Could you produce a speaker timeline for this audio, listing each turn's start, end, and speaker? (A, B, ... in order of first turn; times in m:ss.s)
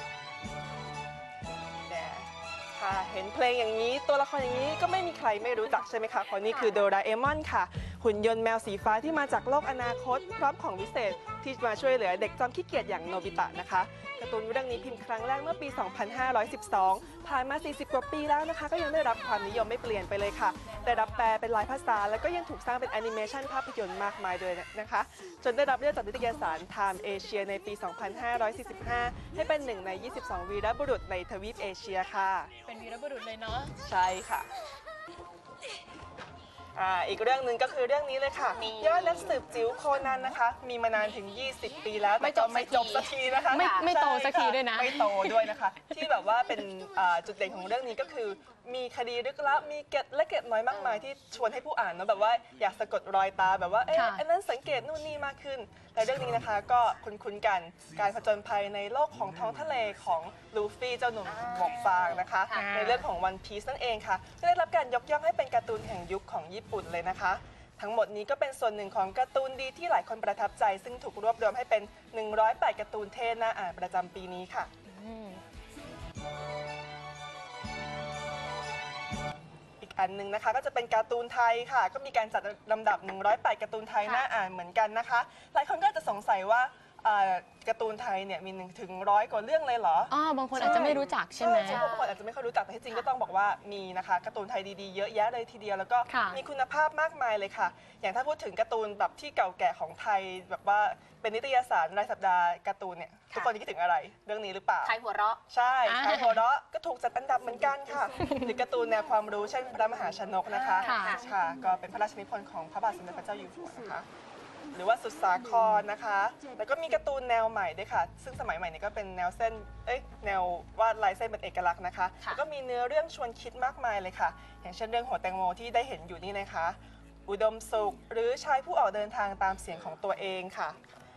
0:01.9-0:32.5 A
0:32.6-0:33.7 B
0:33.8-0:34.5 A
0:36.8-1:14.7 A
0:38.6-0:39.3 C
0:42.2-0:43.1 C
0:43.4-0:46.1 B
0:43.6-0:43.8 C
0:50.7-0:51.0 C
0:53.9-0:54.2 B
1:01.3-1:02.6 C
1:02.5-1:03.0 B
1:14.9-1:15.4 B
1:19.8-1:45.0 A
1:24.0-1:24.3 B
1:30.1-1:31.9 B
1:31.7-1:32.0 C
1:36.1-1:36.4 B
1:44.8-1:45.4 C
1:45.5-1:54.1 A
1:45.8-1:46.4 B
1:48.2-1:48.6 B
1:50.5-1:51.2 C
1:50.8-1:51.2 B
1:54.7-2:10.8 A